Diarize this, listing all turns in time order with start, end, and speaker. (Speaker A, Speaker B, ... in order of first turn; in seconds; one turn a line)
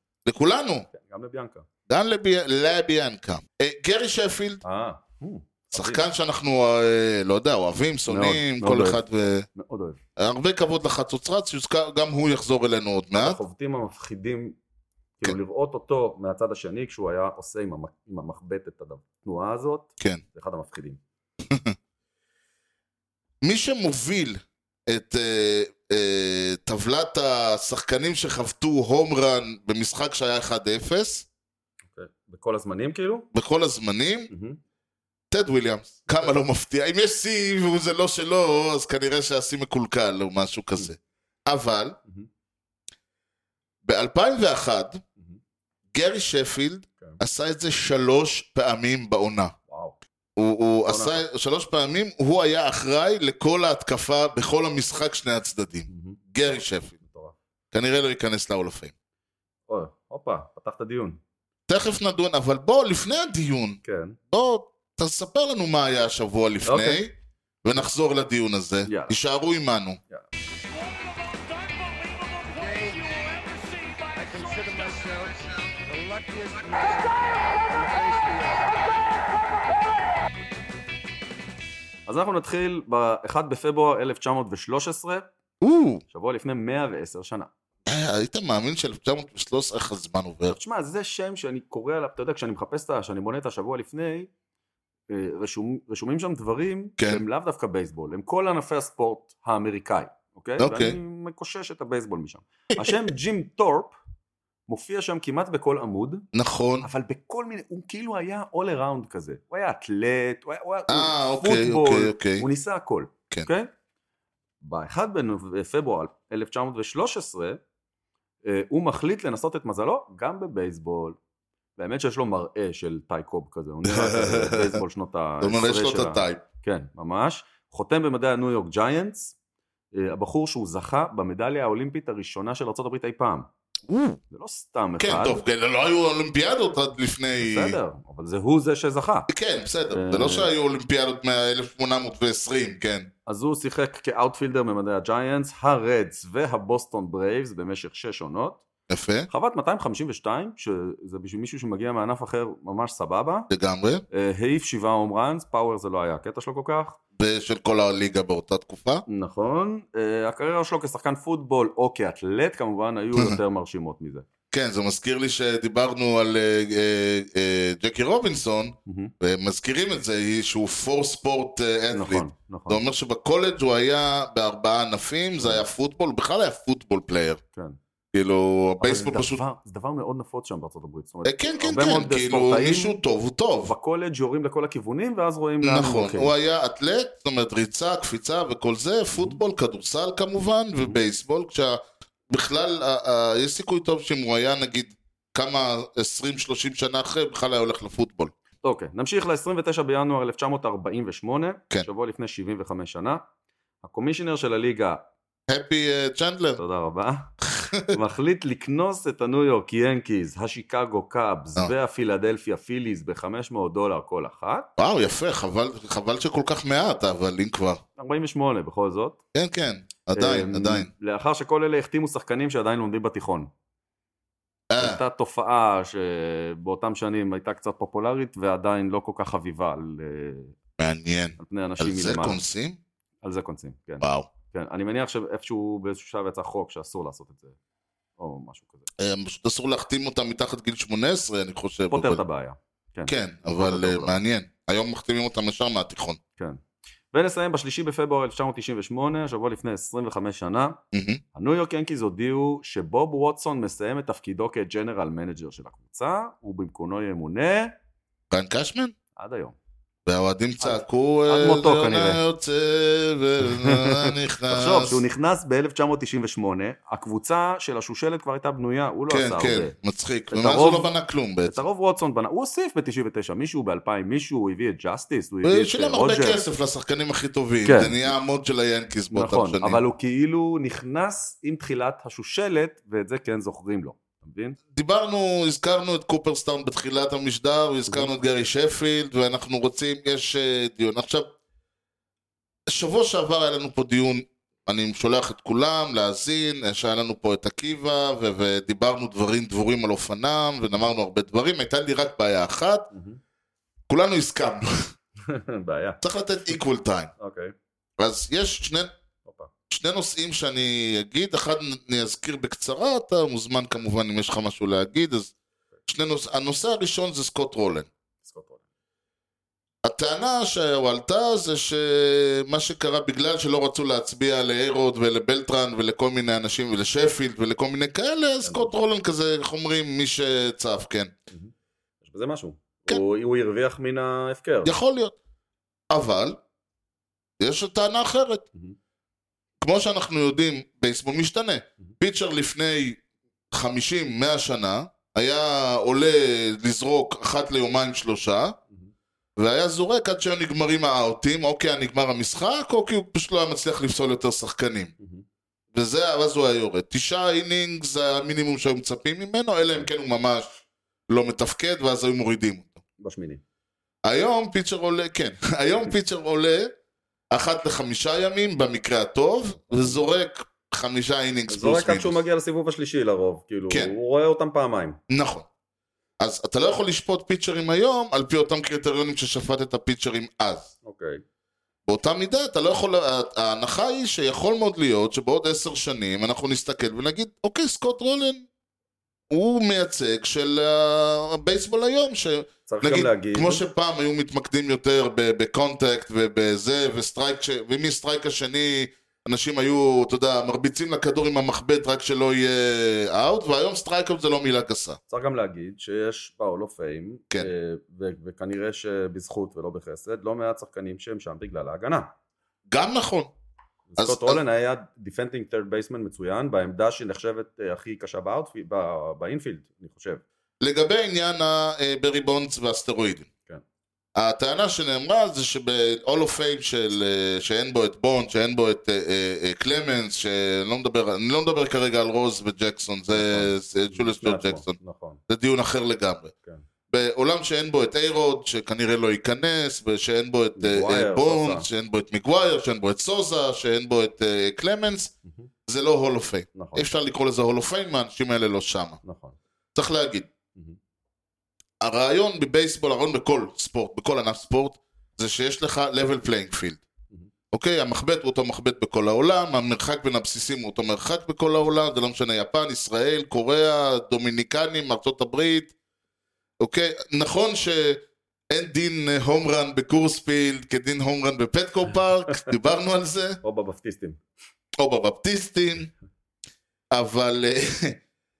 Speaker A: 0.3-0.9
Speaker B: 0.9-1.7
Speaker A: 1.9-4.6
Speaker B: 4.6-6.1
Speaker A: 5.7-9.5
Speaker B: 8.1-9.0
Speaker B: 9.6-10.0
Speaker A: 10.2-13.4
Speaker B: 13.2-14.6
Speaker B: 15.2-21.0
Speaker A: 21.5-21.8
Speaker A: 23.4-31.3
Speaker B: 31.9-33.3
Speaker A: 33.3-34.3
Speaker B: 34.3-34.6
Speaker A: 35.3-42.0
Speaker A: 43.8-45.0
Speaker A: 45.9-49.5
Speaker B: 49.7-50.0
Speaker A: 50.4-57.0
Speaker B: 50.9-51.2
Speaker B: 55.9-56.2
Speaker B: 57.0-57.4
Speaker A: 57.7-58.9
Speaker B: 59.7-61.2
Speaker A: 61.7-63.8
Speaker B: 63.8-64.2
Speaker A: 64.3-67.1
Speaker B: 66.7-67.0
Speaker A: 67.6-70.0
Speaker B: 68.8-69.2
Speaker C: 70.7-78.7
Speaker B: 82.1-85.3
Speaker A: 85.6-86.0
Speaker B: 86.1-87.5
Speaker A: 87.9-90.6
Speaker B: 90.5-94.3
Speaker B: 95.1-104.0
Speaker A: 97.0-97.2
Speaker A: 100.6-101.0
Speaker B: 104.7-106.2
Speaker A: 106.3-106.9
Speaker B: 106.8-113.7
Speaker A: 110.9-112.5
Speaker B: 114.6-117.6
Speaker B: 118.4-121.2
Speaker B: 121.8-129.3
Speaker A: 123.8-124.8
Speaker A: 125.4-126.4
Speaker B: 129.9-133.5
Speaker A: 133.9-134.2
Speaker B: 134.3-135.4
Speaker A: 135.0-137.8
Speaker B: 137.4-139.3
Speaker A: 139.3-143.1
Speaker B: 139.9-140.5
Speaker B: 143.3-148.6
Speaker A: 148.9-149.3
Speaker B: 149.3-153.5
Speaker A: 153.5-154.1
Speaker B: 154.1-157.0
Speaker A: 157.2-159.1
Speaker B: 159.1-164.3
Speaker A: 164.5-177.4
Speaker B: 168.9-169.1
Speaker B: 171.9-172.8
Speaker B: 175.4-175.7
Speaker A: 178.1-179.4
Speaker B: 178.8-183.0
Speaker A: 181.2-183.7
Speaker B: 183.6-186.3
Speaker A: 185.6-198.3
Speaker B: 198.6-203.2
Speaker B: 203.8-205.0
Speaker A: 205.5-206.6
Speaker B: 206.6-207.3
Speaker A: 207.5-208.0
Speaker B: 207.9-214.7
Speaker A: 214.8-217.8
Speaker B: 218.0-219.2
Speaker A: 219.3-220.9
Speaker B: 220.1-223.5
Speaker A: 224.7-225.0
Speaker B: 224.8-230.6
Speaker A: 230.8-232.8
Speaker B: 231.4-232.4
Speaker B: 233.2-237.6
Speaker A: 234.0-234.3
Speaker B: 238.2-238.9
Speaker A: 239.0-242.2
Speaker B: 241.9-244.2
Speaker A: 243.1-246.2
Speaker B: 247.1-250.8
Speaker A: 250.9-251.2
Speaker B: 251.3-257.7
Speaker A: 258.3-258.9
Speaker B: 259.2-259.6
Speaker A: 260.1-265.0
Speaker B: 260.6-262.2
Speaker B: 263.4-269.8
Speaker A: 269.1-271.6
Speaker B: 270.3-270.9
Speaker B: 271.5-276.4
Speaker A: 275.4-279.8
Speaker B: 277.6-278.1
Speaker B: 279.1-284.6
Speaker A: 284.7-291.3
Speaker A: 292.7-302.9
Speaker B: 302.9-303.2
Speaker A: 303.9-304.9
Speaker B: 305.2-306.0
Speaker A: 306.0-307.1
Speaker B: 307.2-307.5
Speaker A: 308.0-308.9
Speaker B: 309.2-309.5
Speaker A: 309.7-315.3
Speaker A: 315.9-317.9
Speaker B: 318.2-318.6
Speaker A: 319.8-331.1
Speaker B: 328.4-328.7
Speaker B: 331.3-334.7
Speaker A: 334.6-335.1
Speaker A: 335.9-336.4
Speaker A: 337.4-338.5
Speaker A: 339.6-343.0
Speaker A: 343.5-348.6
Speaker A: 349.4-354.9
Speaker A: 355.7-360.5
Speaker A: 361.1-362.8
Speaker B: 363.0-363.4
Speaker A: 364.0-366.7
Speaker A: 367.3-372.2
Speaker B: 371.5-375.0
Speaker A: 375.1-375.5
Speaker A: 376.2-380.7
Speaker B: 380.8-381.2
Speaker A: 381.9-388.5
Speaker A: 389.3-405.0
Speaker B: 392.7-393.6
Speaker B: 405.1-412.1
Speaker A: 412.7-413.3
Speaker B: 413.9-420.2
Speaker A: 414.0-414.4
Speaker A: 420.6-423.3
Speaker A: 424.1-434.8
Speaker B: 433.1-435.2
Speaker A: 435.3-436.3
Speaker A: 436.9-445.1
Speaker B: 440.6-441.7
Speaker A: 445.6-449.0
Speaker B: 446.6-446.9
Speaker B: 449.0-449.4
Speaker A: 449.8-450.3
Speaker A: 451.8-456.8
Speaker A: 457.5-465.7
Speaker A: 466.6-473.4
Speaker B: 473.4-474.2
Speaker A: 474.8-475.9
Speaker A: 476.9-478.0